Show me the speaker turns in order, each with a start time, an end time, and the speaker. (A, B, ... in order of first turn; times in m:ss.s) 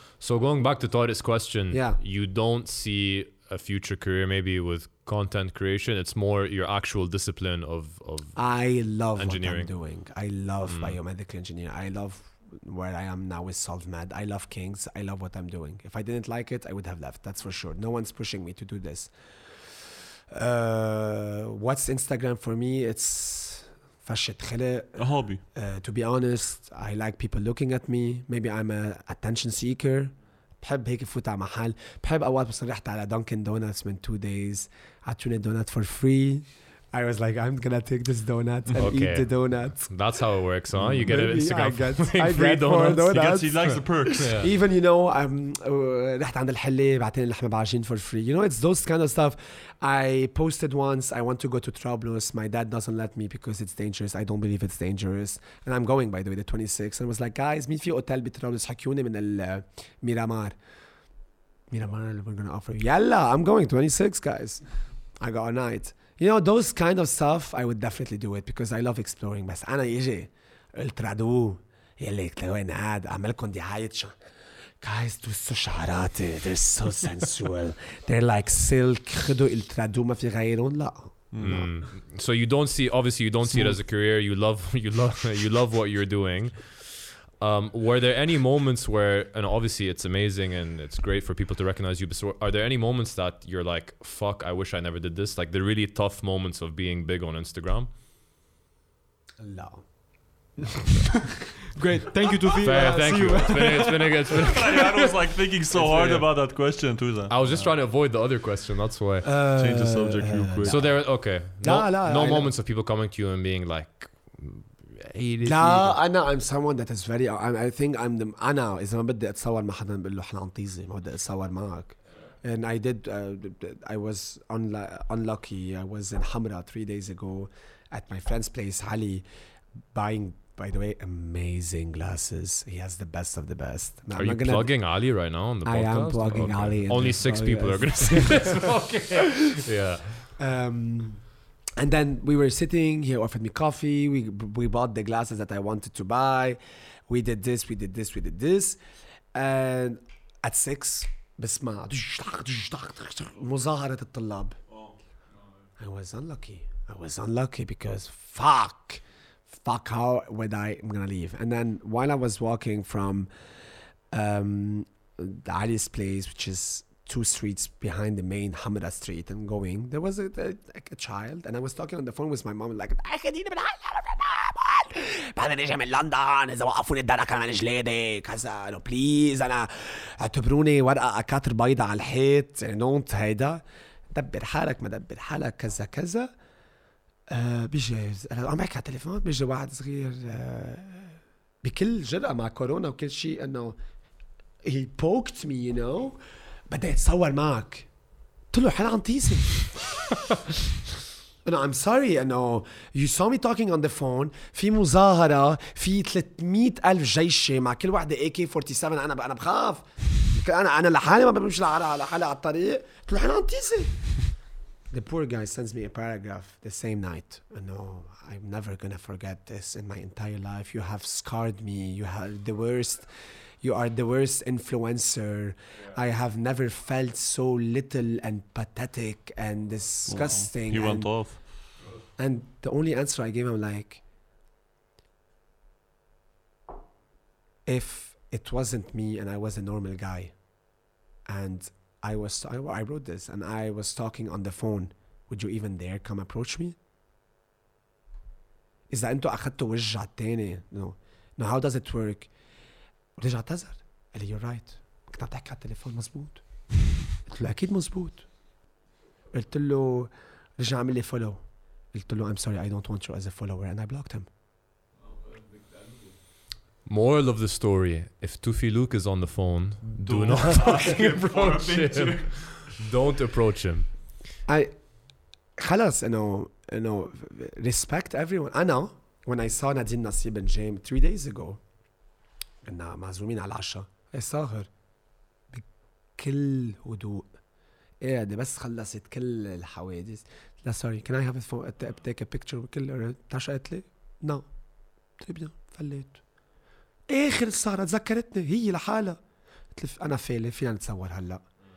0:00.2-0:08.5 A
0:01.7-0:02.0 B
0:08.3-0:40.0 B
0:09.1-0:09.7 A
0:10.7-0:11.0 A
0:25.0-0:25.4 C
0:38.8-0:44.5 A
0:40.7-0:41.0 C
0:41.0-1:00.6 B
0:43.1-0:44.4 C
1:01.7-1:14.2 B
1:14.8-1:21.8 B
1:21.3-1:21.7 C
1:21.4-1:37.9 A
1:23.5-1:23.7 B
1:39.4-1:39.9 B
1:41.8-1:44.8 D
1:42.6-1:44.9 A
1:44.4-1:47.7 C
1:45.7-1:46.2 B
1:47.3-1:49.3 A
1:49.2-1:52.5 B
1:49.6-1:50.8 C
1:50.6-1:56.0 A
1:55.4-2:09.2 B
2:09.9-2:14.9 B
2:14.1-2:20.3 A
2:15.6-2:19.5 B
2:20.4-2:21.2 B
2:21.8-2:28.8 B
2:29.3-2:34.6 B
2:35.8-2:43.3 B
2:44.1-3:06.3 B
3:07.3-3:13.8 B
3:14.6-3:17.9 B
3:18.5-3:19.9 B
3:21.4-3:34.2 B
3:34.9-3:51.4 B
3:50.1-3:51.4 C
3:52.2-3:54.0 B
3:57.6-4:00.4 B
4:01.2-4:06.8 B
4:08.9-4:12.3 B
4:13.2-4:18.3 B
4:19.3-4:24.3 B
4:26.8-4:33.9 A
4:29.9-4:32.7 C
4:34.5-4:34.9 B
4:35.6-4:41.6 B
4:42.6-4:44.7 B
4:46.2-4:47.3 B
4:48.0-4:54.5 B
4:55.2-4:56.2 B
4:57.1-4:59.2 B
4:59.7-5:01.4 B